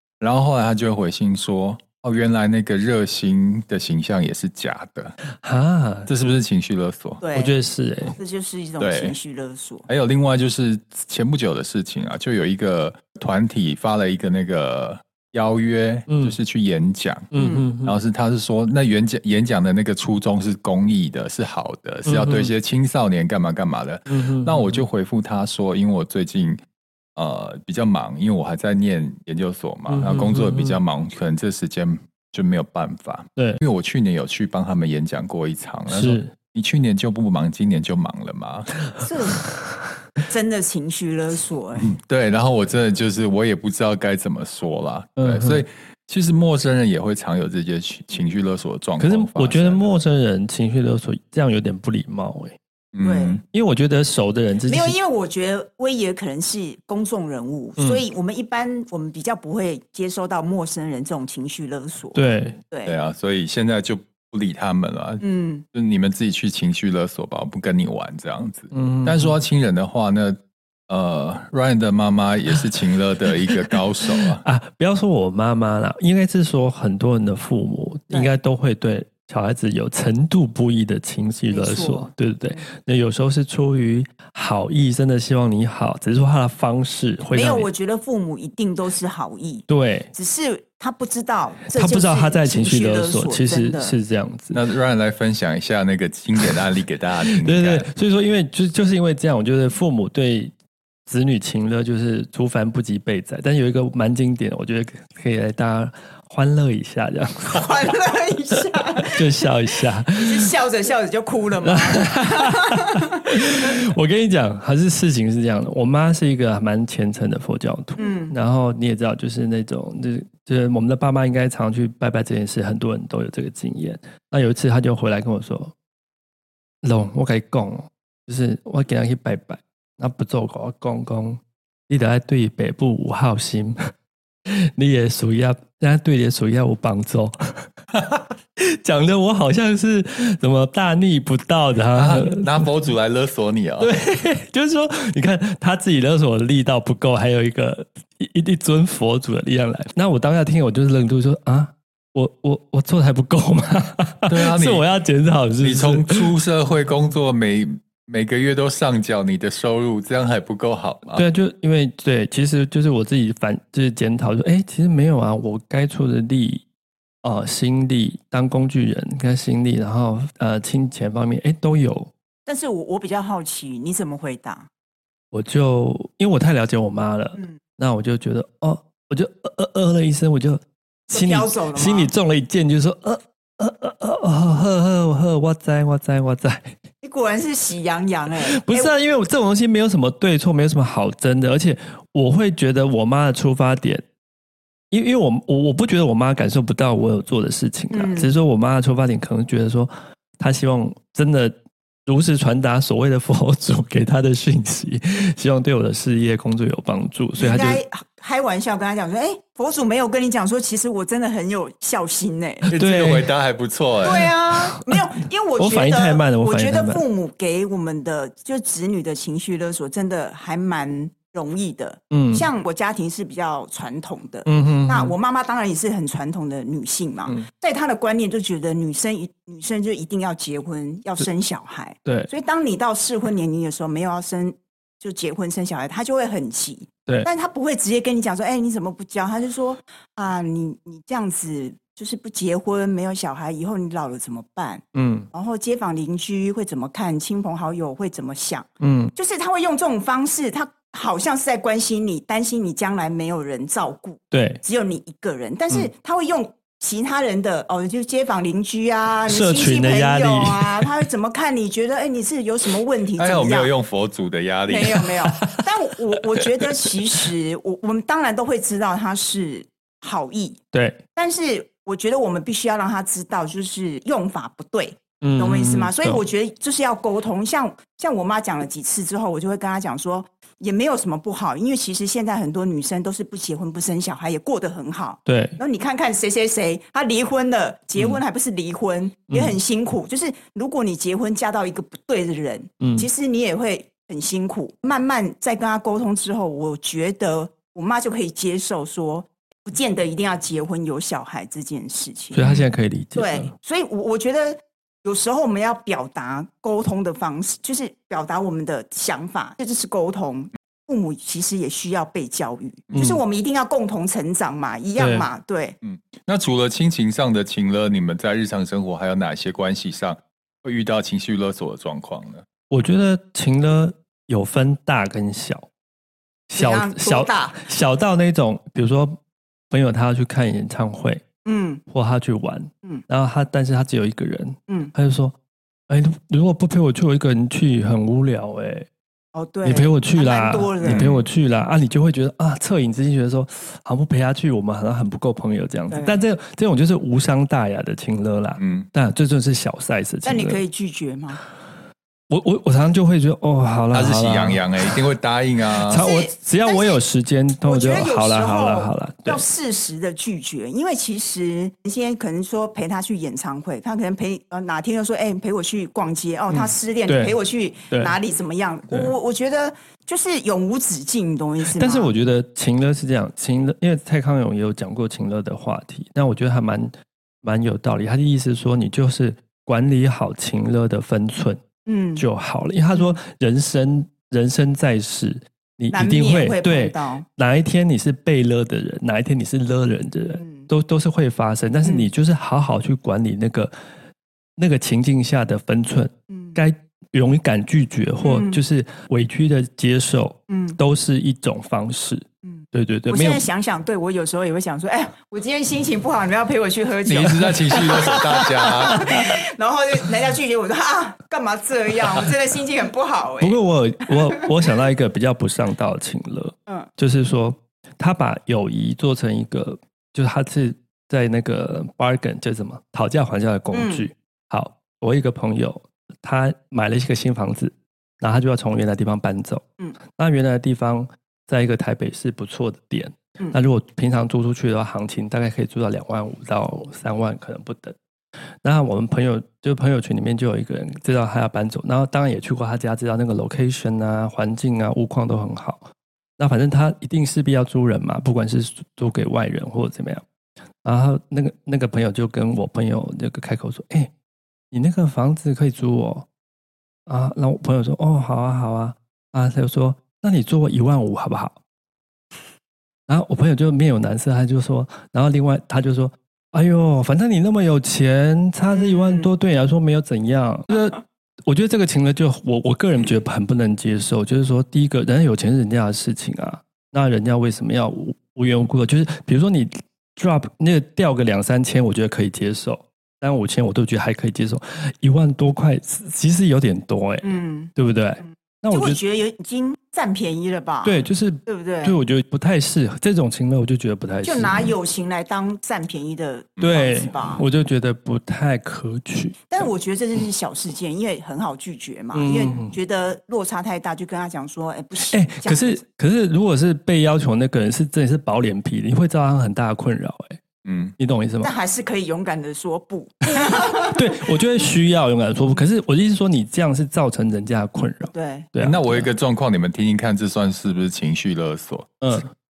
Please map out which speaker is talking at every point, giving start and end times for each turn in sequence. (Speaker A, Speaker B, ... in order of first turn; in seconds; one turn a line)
Speaker A: 0.2-5.1
Speaker B: 5.4-6.1
Speaker A: 6.1-7.2
Speaker C: 7.2-7.5
Speaker B: 7.3-8.2
Speaker C: 8.2-9.9
Speaker A: 8.8-9.2
Speaker A: 9.9-26.6
Speaker B: 16.1-16.4
Speaker B: 17.3-18.0
Speaker C: 17.4-17.7
Speaker B: 22.1-22.5
Speaker B: 24.1-24.8
Speaker A: 27.2-38.7
Speaker B: 29.9-30.8
Speaker B: 33.4-33.6
Speaker B: 35.9-36.3
Speaker C: 39.0-39.4
Speaker C: 40.3-41.9
Speaker A: 41.8-50.0
Speaker B: 45.2-45.6
Speaker B: 49.0-52.6
Speaker A: 52.9-53.4
Speaker C: 53.0-53.4
Speaker B: 53.5-55.0
Speaker C: 54.7-63.0
Speaker B: 57.8-58.0
Speaker B: 62.1-62.6
Speaker A: 62.9-70.4
Speaker C: 65.2-65.7
Speaker B: 68.7-69.3
Speaker A: 70.9-74.4
Speaker B: 73.5-87.7
Speaker C: 81.5-82.7
Speaker C: 87.3-94.0
Speaker B: 89.7-90.1
Speaker B: 91.7-94.6
Speaker A: 94.5-97.9
Speaker B: 97.3-100.5
Speaker B: 101.1-107.8
Speaker C: 107.5-109.2
Speaker B: 109.0-110.5
Speaker C: 110.1-113.7
Speaker B: 111.6-125.7
Speaker C: 118.0-118.3
Speaker B: 126.8-133.8
Speaker B: 134.5-137.7
Speaker B: 138.6-142.7
Speaker A: 141.9-143.9
Speaker B: 143.8-156.3
Speaker A: 154.3-154.9
Speaker A: 155.6-161.2
Speaker B: 161.1-166.6
Speaker B: 167.2-172.1
Speaker C: 172.5-174.7
Speaker B: 175.3-186.7
Speaker C: 181.1-182.1
Speaker C: 187.0-188.9
Speaker B: 188.5-194.0
Speaker B: 194.9-201.6
Speaker C: 197.9-198.4
Speaker B: 202.1-207.8
Speaker C: 207.4-212.7
Speaker A: 212.7-214.3
Speaker B: 212.7-213.3
Speaker C: 214.0-263.7
Speaker B: 215.6-217.1
Speaker B: 222.1-222.5
Speaker B: 224.5-225.2
Speaker B: 244.9-245.3
Speaker B: 248.8-249.1
Speaker B: 254.3-254.6
Speaker B: 259.3-261.0
Speaker A: 263.2-265.1
Speaker C: 264.7-270.6
Speaker B: 265.3-265.7
Speaker B: 270.7-271.0
Speaker C: 271.2-302.4
Speaker B: 275.2-276.2
Speaker B: 285.3-285.6
Speaker B: 289.3-289.6
Speaker B: 292.8-293.1
Speaker B: 302.3-303.5
Speaker A: 302.4-302.7
Speaker C: 303.1-315.8
Speaker B: 312.9-313.2
Speaker B: 315.0-315.3
Speaker A: 315.8-322.4
Speaker B: 322.7-325.7
Speaker B: 326.5-329.2
Speaker C: 326.6-327.6
Speaker B: 329.7-331.2
Speaker C: 331.4-331.8
Speaker B: 331.9-335.4
Speaker B: 335.9-338.9
Speaker C: 339.3-341.1
Speaker B: 339.6-350.6
Speaker A: 340.8-341.3
Speaker C: 345.9-346.2
Speaker A: 348.6-348.9
Speaker C: 350.2-351.4
Speaker B: 352.3-355.0
Speaker A: 353.9-356.0
Speaker B: 355.8-359.4
Speaker C: 355.9-357.0
Speaker C: 357.6-372.1
Speaker B: 366.5-367.4
Speaker B: 371.7-376.9
Speaker B: 377.4-381.6
Speaker C: 381.9-382.2
Speaker B: 382.2-393.7
Speaker C: 382.9-383.2
Speaker C: 385.9-387.2
Speaker C: 390.4-390.7
Speaker C: 391.8-392.1
Speaker B: 394.6-403.4
Speaker C: 396.3-396.6
Speaker C: 398.2-398.6
Speaker C: 400.5-400.8
Speaker C: 402.4-413.6
Speaker A: 407.1-409.1
Speaker B: 408.9-409.2
Speaker B: 413.4-438.0
Speaker C: 414.1-414.4
Speaker C: 423.7-424.1
Speaker B: 438.6-450.2
Speaker B: 450.8-454.1
Speaker B: 454.7-456.3
Speaker B: 457.1-461.6
Speaker B: 463.1-489.0
Speaker C: 468.7-469.3
Speaker C: 487.2-487.7
Speaker C: 488.2-492.0
Speaker B: 490.8-494.7
Speaker C: 494.2-497.4
Speaker A: 496.6-496.8
Speaker B: 496.6-499.6
Speaker C: 499.5-505.8
Speaker B: 502.1-502.8
Speaker B: 505.1-510.4
Speaker A: 510.6-510.9
Speaker B: 511.0-511.5
Speaker C: 511.4-514.2
Speaker B: 513.4-519.1
Speaker C: 518.1-518.5
Speaker A: 518.6-522.2
Speaker B: 522.0-522.3